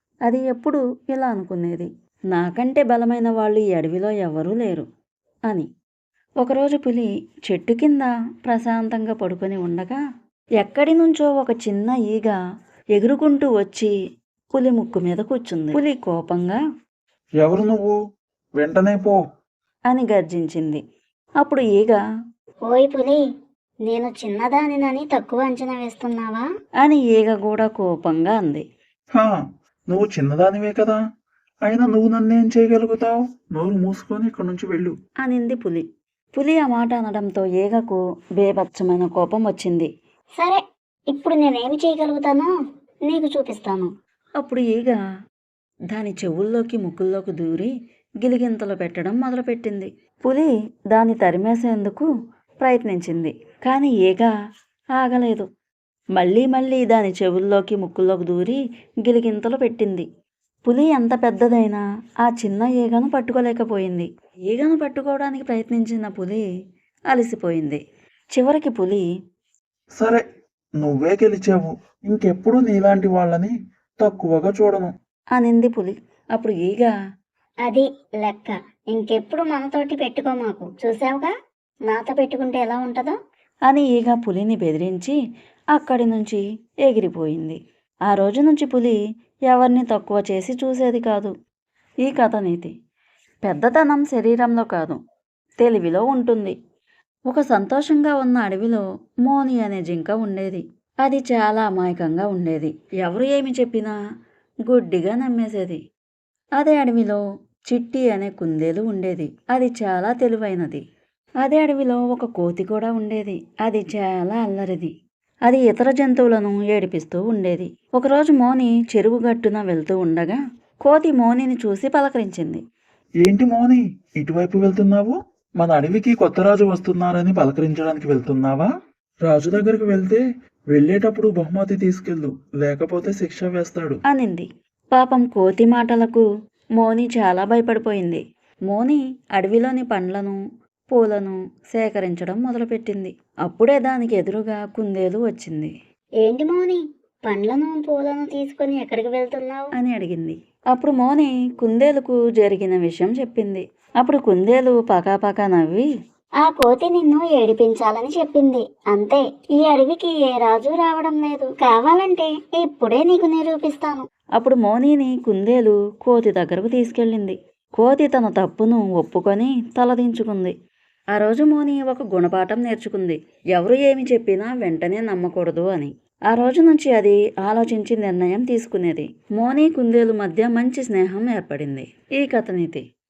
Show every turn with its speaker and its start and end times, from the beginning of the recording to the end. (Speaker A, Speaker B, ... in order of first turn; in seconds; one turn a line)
Speaker A: 0.2-4.8
Speaker A: 6.4-10.0
Speaker A: 10.6-12.3
Speaker A: 12.9-13.9
Speaker A: 14.5-16.6
Speaker B: 17.4-17.9
Speaker B: 18.6-19.2
Speaker A: 19.9-20.8
Speaker A: 21.4-22.0
Speaker C: 22.6-23.2
Speaker C: 23.9-26.4
Speaker A: 26.8-28.6
Speaker B: 29.1-31.0
Speaker B: 31.6-34.9
Speaker A: 35.2-39.9
Speaker C: 40.4-42.5
Speaker C: 43.1-43.9
Speaker A: 44.4-45.0
Speaker A: 45.9-47.7
Speaker A: 48.2-52.1
Speaker A: 52.6-54.3
Speaker A: 55.0-55.5
Speaker A: 56.1-60.0
Speaker A: 60.6-66.4
Speaker A: 67.1-67.8
Speaker A: 68.3-69.0
Speaker B: 70.0-70.2
Speaker B: 70.8-74.9
Speaker A: 75.3-76.9
Speaker C: 77.6-81.3
Speaker C: 81.9-83.1
Speaker A: 83.7-85.2
Speaker A: 85.7-91.3
Speaker A: 92.0-92.7
Speaker A: 93.4-95.0
Speaker A: 95.6-96.5
Speaker A: 97.3-103.9
Speaker A: 104.7-105.8
Speaker A: 106.6-110.8
Speaker A: 111.4-114.9
Speaker A: 115.5-122.6
Speaker B: 123.2-128.7
Speaker B: 129.2-134.0
Speaker A: 134.1-140.4
Speaker A: 140.9-145.7
Speaker C: 146.2-149.7
Speaker A: 149.8-155.9
Speaker C: 156.4-164.0
Speaker A: 164.4-170.5
Speaker A: 171.1-182.8